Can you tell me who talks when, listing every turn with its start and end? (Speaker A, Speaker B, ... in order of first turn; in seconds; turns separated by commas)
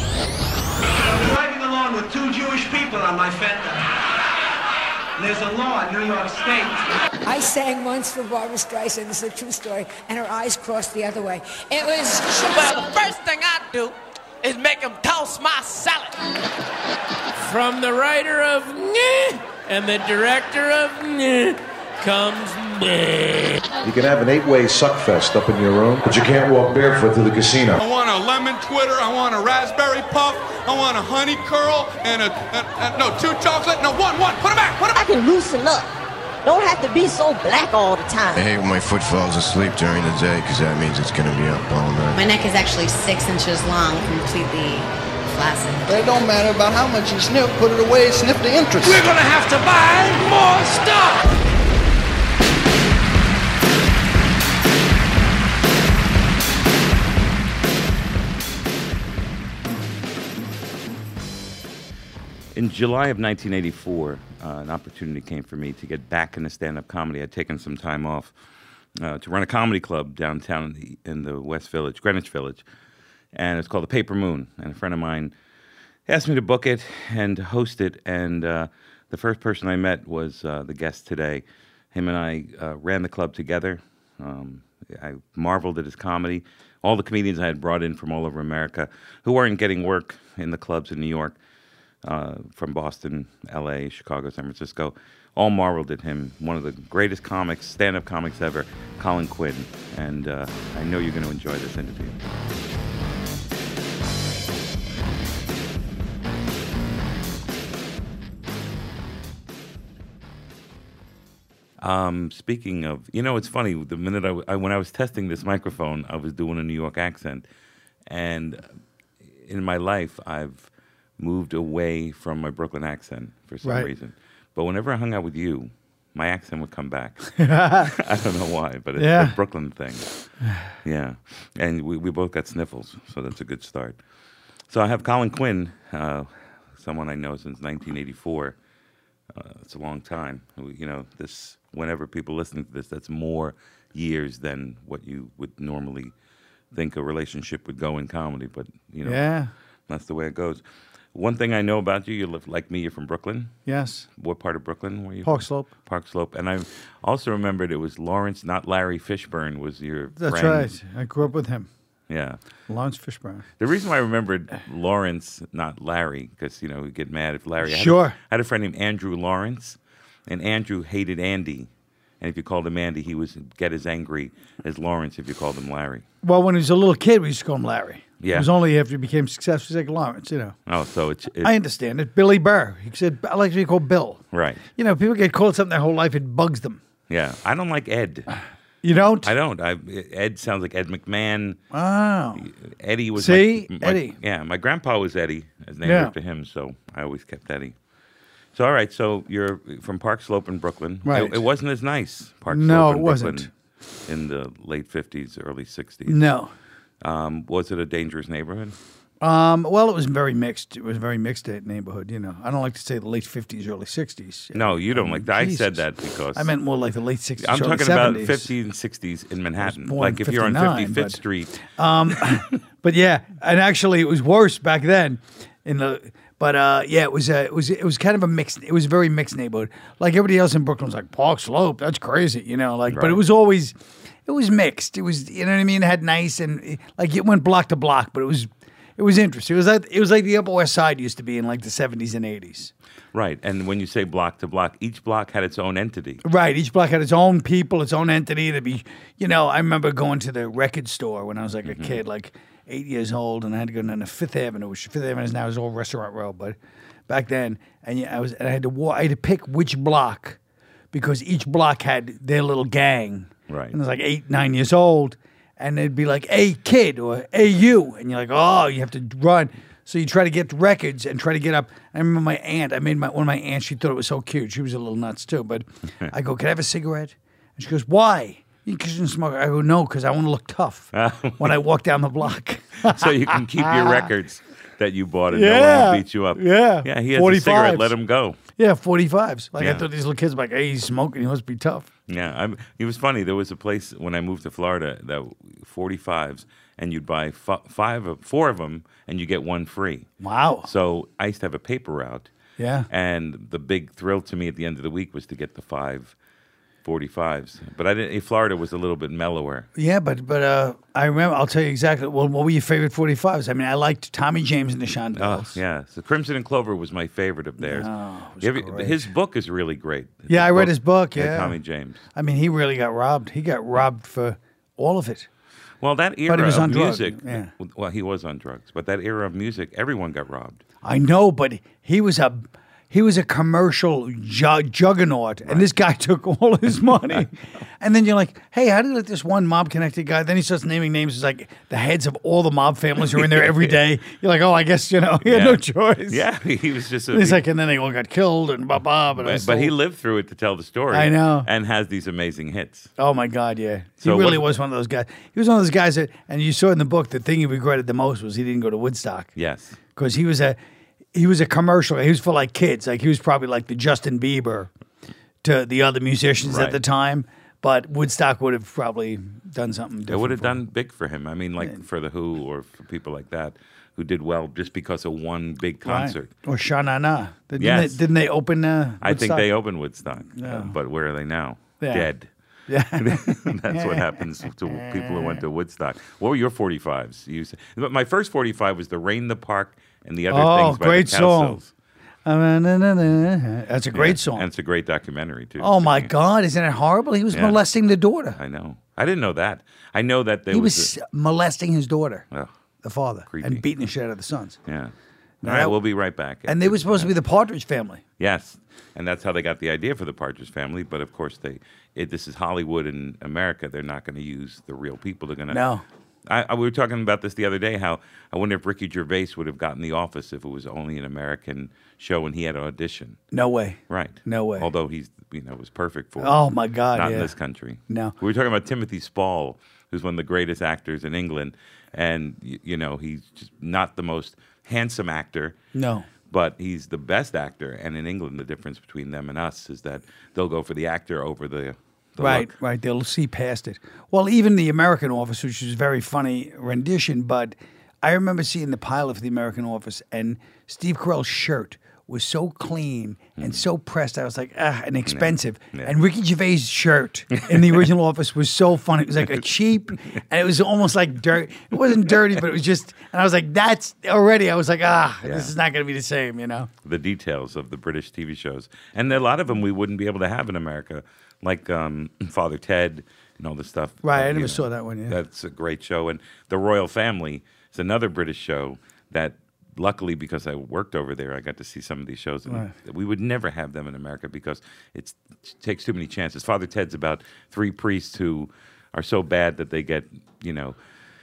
Speaker A: 1.0-3.9, Speaker A: 5.2-6.9, Speaker B: 7.2-12.8, Speaker C: 12.4-16.1, Speaker D: 17.4-23.6, Speaker E: 23.8-27.8, Speaker F: 27.8-35.0, Speaker G: 34.9-35.9, Speaker G: 36.4-38.5, Speaker H: 38.4-42.2, Speaker I: 42.1-45.9, Speaker J: 45.9-49.0, Speaker D: 48.8-51.3, Speaker K: 62.5-68.3, Speaker K: 68.9-72.6, Speaker K: 73.3-75.3, Speaker K: 76.1-91.4, Speaker K: 92.0-102.2, Speaker K: 111.8-117.4, Speaker K: 118.1-118.7, Speaker K: 119.4-130.1, Speaker L: 123.6-123.9, Speaker L: 127.4-127.9, Speaker L: 129.0-129.3, Speaker K: 130.8-134.0, Speaker K: 134.7-138.6, Speaker K: 139.3-146.1, Speaker K: 146.7-149.2, Speaker L: 149.0-149.5, Speaker K: 149.9-150.6, Speaker K: 151.1-153.5, Speaker L: 153.7-154.1, Speaker K: 154.2-160.7, Speaker L: 155.2-155.7, Speaker L: 160.2-161.7, Speaker K: 162.1-162.4, Speaker L: 162.7-163.4, Speaker K: 163.6-171.7, Speaker L: 167.6-168.2, Speaker K: 172.2-176.1, Speaker L: 176.2-180.6, Speaker K: 178.2-178.5, Speaker K: 180.7-181.6, Speaker L: 181.4-184.2, Speaker K: 184.3-184.6, Speaker L: 184.8-186.8, Speaker K: 187.1-188.3, Speaker L: 188.8-189.3, Speaker K: 189.2-191.6, Speaker L: 191.7-192.4, Speaker K: 192.3-197.7, Speaker L: 193.2-194.1, Speaker L: 195.8-196.1, Speaker K: 198.5-203.5, Speaker L: 201.0-201.4, Speaker L: 202.5-203.5, Speaker K: 204.1-206.2, Speaker L: 206.1-206.5, Speaker K: 207.0-208.8, Speaker L: 209.2-215.8, Speaker K: 214.5-216.5, Speaker L: 216.3-218.5, Speaker K: 217.4-222.4, Speaker L: 219.6-233.7, Speaker K: 232.9-233.2, Speaker L: 234.2-242.7, Speaker K: 243.1-246.2, Speaker L: 246.2-256.6, Speaker K: 251.6-252.0, Speaker L: 257.1-260.4, Speaker L: 260.9-284.0, Speaker K: 263.5-263.7, Speaker K: 280.9-281.6, Speaker K: 282.8-288.4, Speaker L: 285.3-287.9, Speaker L: 288.6-291.9, Speaker K: 289.6-289.8, Speaker K: 292.1-300.1, Speaker L: 300.2-300.7, Speaker K: 300.6-302.3, Speaker L: 302.6-302.9, Speaker K: 302.9-306.1, Speaker K: 306.8-309.7, Speaker L: 309.8-315.6, Speaker K: 315.1-317.9, Speaker L: 317.6-319.1, Speaker K: 318.4-322.0, Speaker L: 320.3-321.6, Speaker L: 322.1-325.3, Speaker K: 325.8-330.6, Speaker L: 326.3-327.5, Speaker L: 330.8-346.2, Speaker K: 343.1-343.8, Speaker K: 345.2-347.4, Speaker L: 347.1-349.7, Speaker K: 349.1-352.9, Speaker L: 350.9-351.5, Speaker L: 353.0-359.3, Speaker K: 354.0-354.5, Speaker K: 359.3-359.8, Speaker L: 359.9-360.6, Speaker L: 361.1-364.7, Speaker L: 365.4-370.6, Speaker K: 366.4-366.8, Speaker K: 370.1-376.3, Speaker L: 375.8-379.5, Speaker K: 377.6-378.0, Speaker K: 379.0-382.3, Speaker L: 380.3-380.8, Speaker L: 381.8-382.1, Speaker L: 382.7-385.4, Speaker K: 382.9-391.7, Speaker L: 390.3-391.6, Speaker L: 392.2-394.5, Speaker K: 393.9-396.1, Speaker L: 395.6-398.4, Speaker K: 397.3-397.6, Speaker K: 398.3-400.9, Speaker L: 400.5-402.2, Speaker L: 402.8-404.6, Speaker K: 403.3-403.6, Speaker K: 404.6-407.1, Speaker L: 405.4-405.8, Speaker L: 406.4-408.0, Speaker K: 408.2-415.7, Speaker L: 415.5-415.8, Speaker K: 416.2-423.2, Speaker L: 423.3-424.7, Speaker K: 423.9-435.6, Speaker L: 426.2-427.3, Speaker L: 427.9-428.1, Speaker L: 435.7-436.1, Speaker K: 436.3-442.5, Speaker L: 442.2-466.7, Speaker K: 453.4-453.6, Speaker K: 455.1-455.9, Speaker K: 457.5-457.9, Speaker K: 465.2-465.5, Speaker K: 466.8-490.8, Speaker L: 474.0-475.2, Speaker L: 482.5-482.7